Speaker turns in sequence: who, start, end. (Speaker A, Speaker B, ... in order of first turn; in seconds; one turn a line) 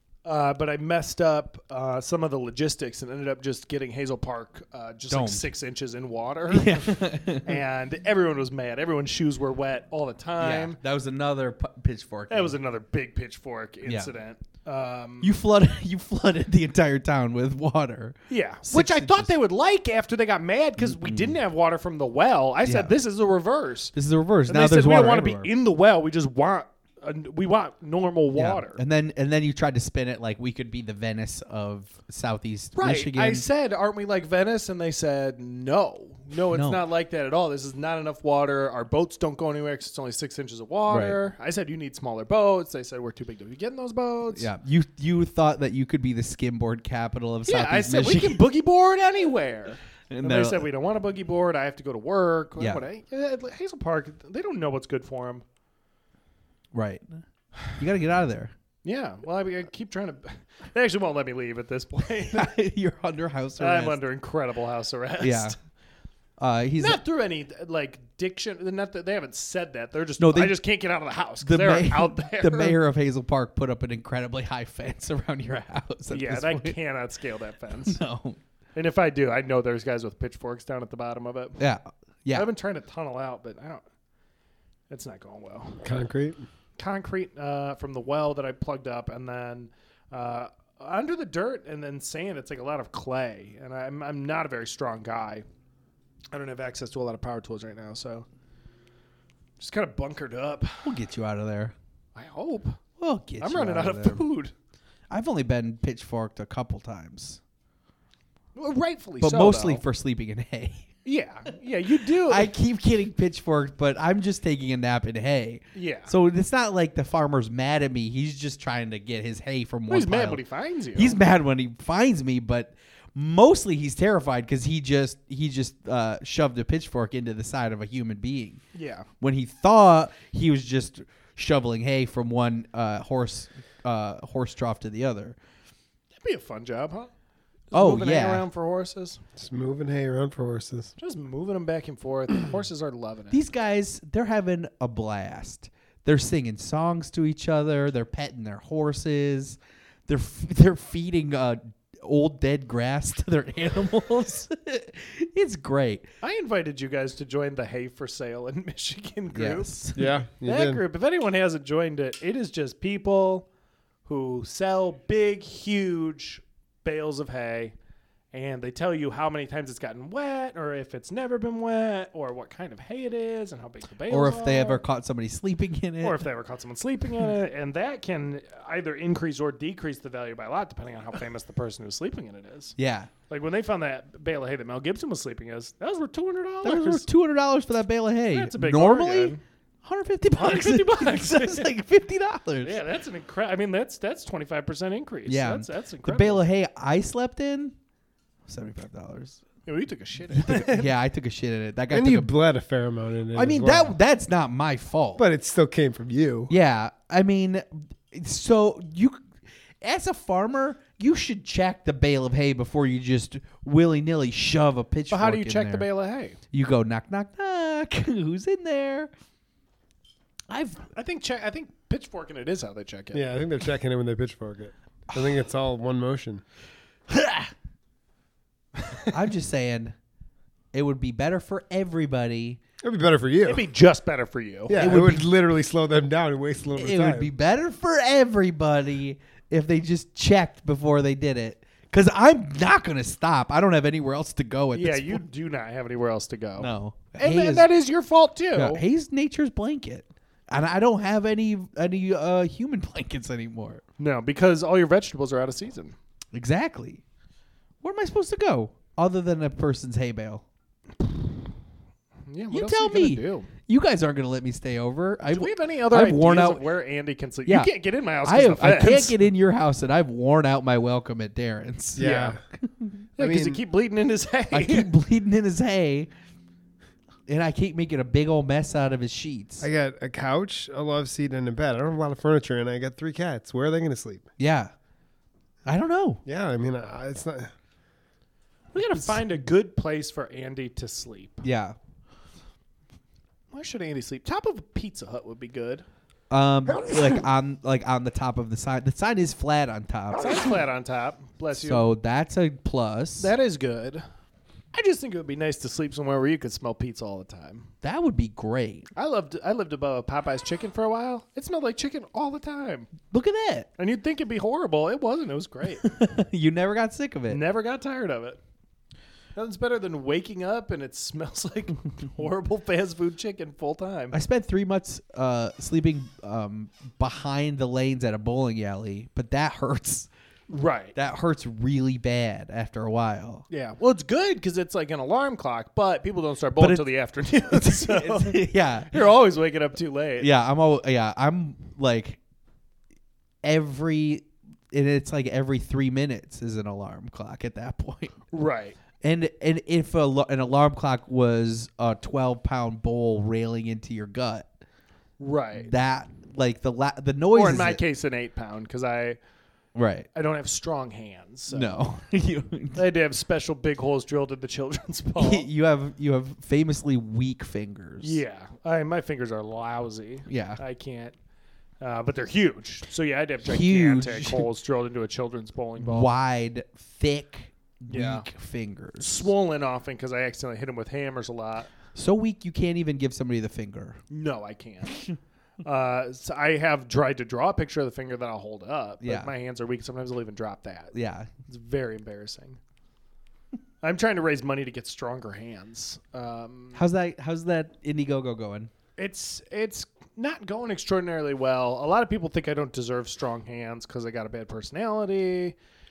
Speaker A: 0.2-10.8
Speaker B: 5.1-5.5
Speaker B: 6.5-7.6
Speaker B: 10.4-12.6
Speaker A: 12.3-15.3
Speaker B: 13.8-14.1
Speaker B: 15.2-19.3
Speaker A: 18.3-28.8
Speaker B: 20.8-21.4
Speaker B: 22.6-22.9
Speaker B: 23.9-25.5
Speaker B: 28.3-33.4
Speaker A: 32.8-44.5
Speaker B: 36.5-36.8
Speaker B: 40.9-41.2
Speaker B: 44.3-48.4
Speaker A: 47.4-55.4
Speaker B: 50.1-50.7
Speaker B: 52.6-52.8
Speaker B: 56.7-57.2
Speaker B: 57.7-58.5
Speaker A: 58.8-62.5
Speaker B: 62.3-64.0
Speaker A: 63.6-65.5
Speaker B: 65.2-65.5
Speaker B: 66.4-67.0
Speaker A: 66.8-72.8
Speaker B: 70.2-70.6
Speaker B: 71.4-76.8
Speaker A: 76.1-78.0
Speaker B: 77.8-78.4
Speaker A: 78.7-81.6
Speaker B: 81.6-82.5
Speaker A: 82.3-83.8
Speaker A: 84.9-85.8
Speaker C: 85.8-86.4
Speaker A: 86.8-95.4
Speaker A: 96.3-98.3
Speaker A: 99.6-100.9
Speaker B: 100.8-101.7
Speaker A: 102.1-102.8
Speaker B: 103.0-104.2
Speaker A: 103.4-104.5
Speaker B: 105.1-107.4
Speaker A: 108.5-109.8
Speaker B: 109.2-110.9
Speaker A: 111.0-112.5
Speaker B: 112.2-120.4
Speaker A: 115.7-116.1
Speaker A: 119.9-121.2
Speaker B: 120.9-128.6
Speaker A: 128.7-129.1
Speaker B: 129.2-135.4
Speaker A: 136.2-137.1
Speaker A: 137.7-139.2
Speaker B: 137.7-138.5
Speaker C: 139.3-140.9
Speaker A: 141.0-143.4
Speaker B: 143.3-156.1
Speaker A: 156.2-163.5
Speaker B: 159.3-160.1
Speaker C: 159.9-160.8
Speaker A: 164.1-167.7
Speaker A: 168.3-174.8
Speaker B: 174.1-176.2
Speaker A: 176.0-182.8
Speaker B: 182.8-183.1
Speaker A: 183.3-187.1
Speaker B: 186.6-192.8
Speaker A: 188.3-189.4
Speaker A: 190.3-191.7
Speaker A: 192.6-196.4
Speaker B: 195.3-197.7
Speaker B: 198.5-199.4
Speaker A: 199.7-200.9
Speaker B: 200.3-202.3
Speaker C: 201.9-203.9
Speaker B: 203.3-205.2
Speaker C: 205.2-206.5
Speaker B: 206.5-209.2
Speaker B: 209.8-215.9
Speaker A: 215.1-216.4
Speaker B: 216.5-219.1
Speaker B: 220.5-220.9
Speaker A: 220.9-223.3
Speaker C: 223.1-226.4
Speaker B: 227.1-227.5
Speaker A: 228.8-229.1
Speaker B: 229.1-229.9
Speaker B: 230.7-232.6
Speaker C: 232.8-233.6
Speaker A: 233.4-234.9
Speaker C: 234.7-237.3
Speaker B: 234.7-235.3
Speaker B: 236.7-245.2
Speaker A: 244.7-248.8
Speaker B: 246.6-247.7
Speaker B: 248.5-253.8
Speaker A: 254.0-255.9
Speaker B: 256.3-257.0
Speaker B: 257.8-260.4
Speaker A: 262.3-263.5
Speaker B: 262.5-266.7
Speaker A: 265.3-269.1
Speaker B: 267.4-273.0
Speaker C: 271.9-272.4
Speaker A: 272.0-272.4
Speaker A: 273.2-274.9
Speaker C: 273.2-273.6
Speaker B: 274.5-276.1
Speaker B: 277.3-279.7
Speaker C: 279.6-284.3
Speaker B: 284.4-284.7
Speaker B: 285.6-286.2
Speaker C: 286.2-287.5
Speaker A: 288.7-291.4
Speaker B: 288.9-289.2
Speaker B: 291.4-291.8
Speaker A: 293.5-295.8
Speaker B: 296.3-300.4
Speaker A: 300.2-301.8
Speaker B: 301.5-303.3
Speaker A: 303.2-304.0
Speaker A: 304.7-307.7
Speaker B: 307.8-308.9
Speaker A: 308.9-312.9
Speaker B: 313.1-313.7
Speaker A: 313.8-315.9
Speaker B: 315.8-317.4
Speaker A: 317.3-318.4
Speaker A: 319.4-324.1
Speaker B: 324.1-330.1
Speaker A: 330.5-330.9
Speaker B: 330.9-333.4
Speaker A: 333.5-340.3
Speaker B: 336.6-336.8
Speaker B: 337.4-339.0
Speaker B: 340.2-342.2
Speaker B: 343.4-348.1
Speaker A: 348.3-348.8
Speaker B: 349.0-354.5
Speaker A: 355.2-355.7
Speaker B: 355.6-357.8
Speaker A: 357.3-359.2
Speaker B: 359.7-360.1
Speaker A: 360.1-361.8
Speaker B: 361.5-362.8
Speaker A: 362.7-365.5
Speaker B: 365.2-368.2
Speaker A: 368.0-371.1
Speaker B: 370.3-370.6
Speaker A: 371.8-376.1
Speaker B: 373.4-374.5
Speaker B: 375.8-379.3
Speaker A: 377.9-378.2
Speaker A: 379.0-381.7
Speaker B: 381.9-384.0
Speaker A: 384.1-385.0
Speaker A: 385.6-390.9
Speaker B: 389.0-389.3
Speaker B: 390.9-391.3
Speaker A: 391.4-392.6
Speaker A: 393.8-396.8
Speaker B: 396.7-398.7
Speaker A: 399.0-405.6